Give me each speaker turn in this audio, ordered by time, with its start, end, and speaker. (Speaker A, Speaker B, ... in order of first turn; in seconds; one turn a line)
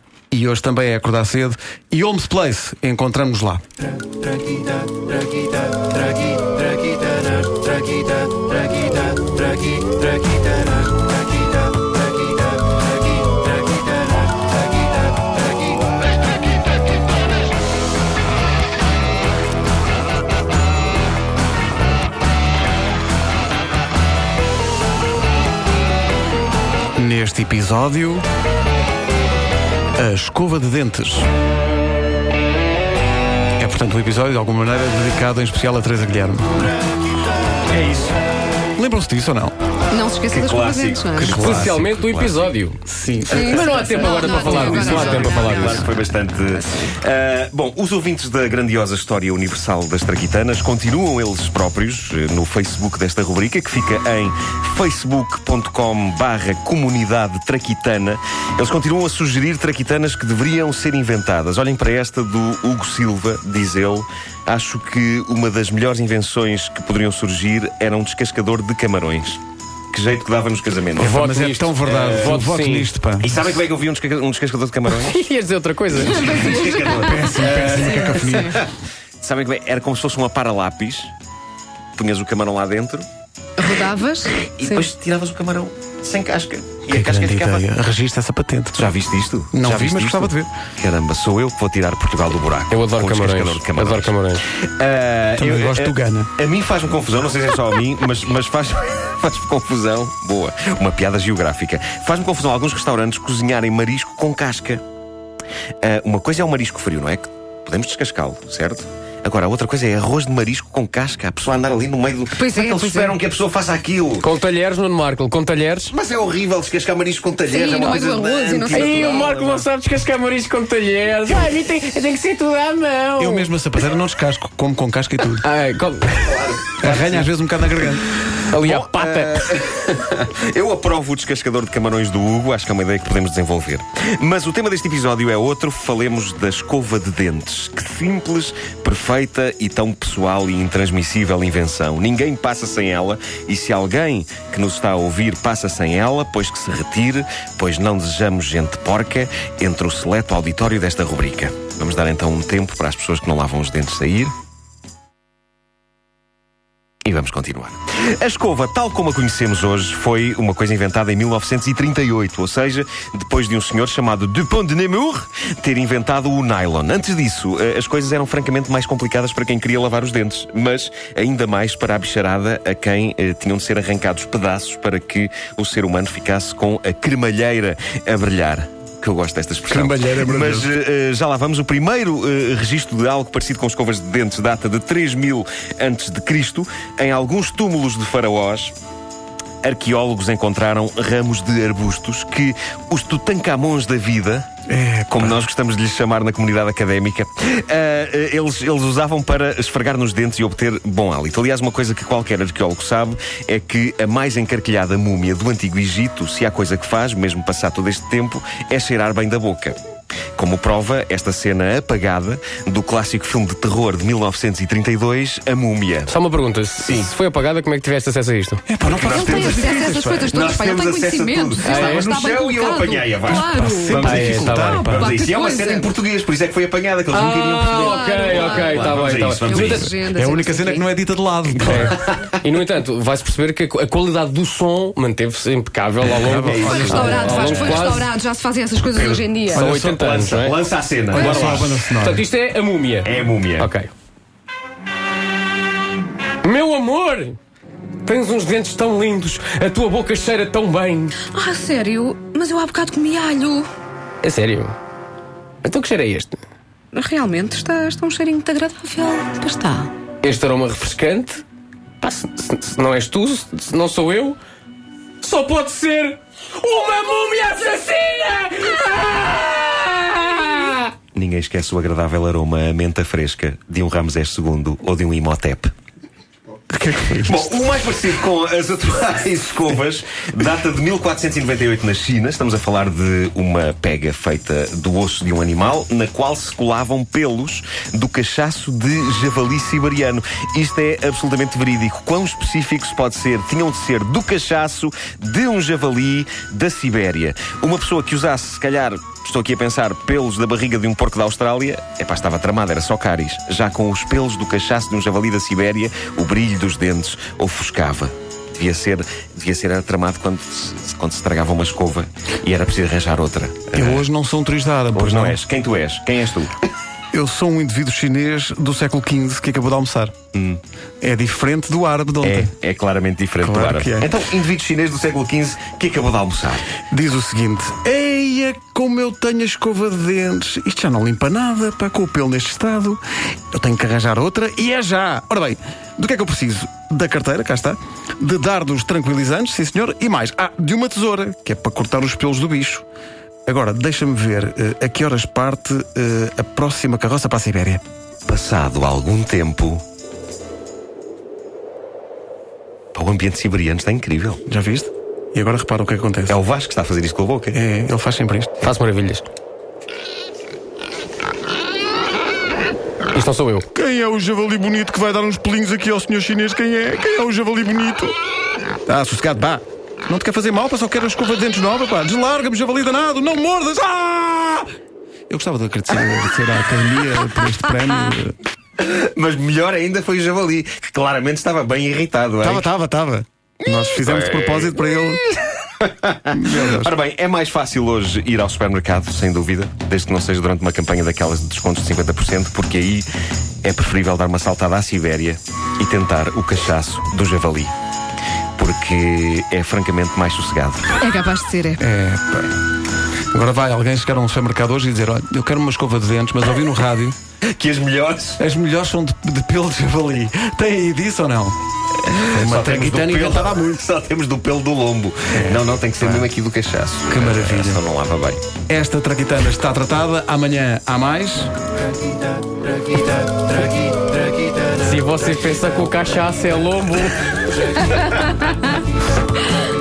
Speaker A: 0.3-3.6
Speaker A: 27.0-28.2
Speaker A: 30.0-31.3
Speaker A: 33.6-36.5
Speaker B: 37.7-38.2
Speaker A: 38.8-39.5
Speaker C: 39.9-41.5
Speaker B: 40.3-42.5
Speaker D: 41.2-42.8
Speaker A: 41.4-41.7
Speaker A: 42.9-43.9
Speaker D: 43.3-45.9
Speaker C: 43.3-46.0
Speaker B: 44.3-69.4
Speaker B: 69.9-71.2
Speaker A: 71.0-73.4
Speaker D: 71.0-72.9
Speaker B: 71.8-72.5
Speaker B: 73.2-75.2
Speaker D: 74.9-76.7
Speaker B: 76.0-78.7
Speaker C: 76.1-78.5
Speaker A: 76.9-78.6
Speaker B: 79.2-81.1
Speaker B: 82.0-83.1
Speaker C: 83.6-84.9
Speaker B: 84.4-87.7
Speaker A: 86.9-88.9
Speaker B: 88.8-104.8
Speaker A: 89.5-90.5
Speaker D: 92.7-94.4
Speaker A: 95.4-96.3
Speaker B: 105.8-114.3
Speaker C: 112.4-113.1
Speaker D: 114.2-115.9
Speaker B: 115.9-119.7
Speaker C: 117.5-119.3
Speaker D: 118.7-123.5
Speaker A: 123.2-125.5
Speaker D: 125.4-126.5
Speaker B: 126.2-127.3
Speaker A: 126.8-128.1
Speaker D: 128.5-129.5
Speaker B: 128.5-154.3
Speaker B: 157.1-188.7
Speaker A: 179.7-180.7
Speaker B: 189.6-194.5
Speaker A: 194.7-195.4
Speaker B: 195.1-209.8
Speaker B: 210.4-216.1
Speaker D: 216.1-218.6
Speaker B: 216.8-217.1
Speaker A: 218.7-220.3
Speaker B: 218.8-229.9
Speaker C: 219.1-225.9
Speaker D: 221.7-222.1
Speaker A: 223.3-225.1
Speaker D: 223.9-225.1
Speaker D: 227.1-229.9
Speaker C: 227.7-230.8
Speaker A: 230.2-231.9
Speaker D: 231.6-238.1
Speaker A: 236.2-237.6
Speaker B: 236.3-237.8
Speaker C: 236.6-239.7
Speaker B: 238.9-241.8
Speaker D: 239.5-240.6
Speaker A: 239.5-240.0
Speaker A: 241.1-242.2
Speaker C: 241.2-241.5
Speaker D: 241.2-243.9
Speaker B: 243.0-243.7
Speaker D: 246.4-247.4
Speaker D: 248.1-251.2
Speaker C: 251.2-253.7
Speaker D: 254.2-254.8
Speaker D: 255.6-256.4
Speaker C: 256.9-259.9
Speaker D: 260.2-261.4
Speaker D: 262.0-264.4
Speaker D: 265.2-270.9
Speaker B: 271.1-275.7
Speaker A: 276.7-277.5
Speaker B: 277.2-314.1
Speaker A: 313.7-315.4
Speaker B: 314.9-316.5
Speaker A: 317.1-320.1
Speaker B: 320.3-320.6
Speaker A: 321.0-322.5
Speaker B: 322.2-326.6
Speaker A: 323.4-324.1
Speaker A: 326.9-333.0
Speaker A: 333.5-342.9
Speaker A: 343.5-347.8
Speaker B: 348.3-349.8
Speaker B: 352.9-354.4
Speaker A: 354.5-356.4
Speaker B: 356.3-357.6
Speaker A: 357.5-358.5
Speaker D: 358.6-359.3
Speaker D: 363.1-363.7
Speaker A: 363.7-368.1
Speaker A: 368.9-374.7
Speaker A: 375.3-378.4
Speaker B: 378.8-382.7
Speaker A: 382.4-385.2
Speaker B: 383.7-384.9
Speaker B: 385.8-393.1
Speaker A: 386.3-386.9
Speaker B: 393.6-397.7
Speaker B: 398.6-400.9
Speaker C: 401.0-401.8
Speaker A: 401.8-402.5
Speaker A: 403.3-407.2
Speaker B: 407.6-408.4
Speaker A: 408.4-411.6
Speaker B: 412.1-418.4
Speaker A: 412.3-413.8
Speaker A: 415.3-416.2
Speaker A: 417.1-417.8
Speaker A: 418.7-421.5
Speaker D: 424.8-427.9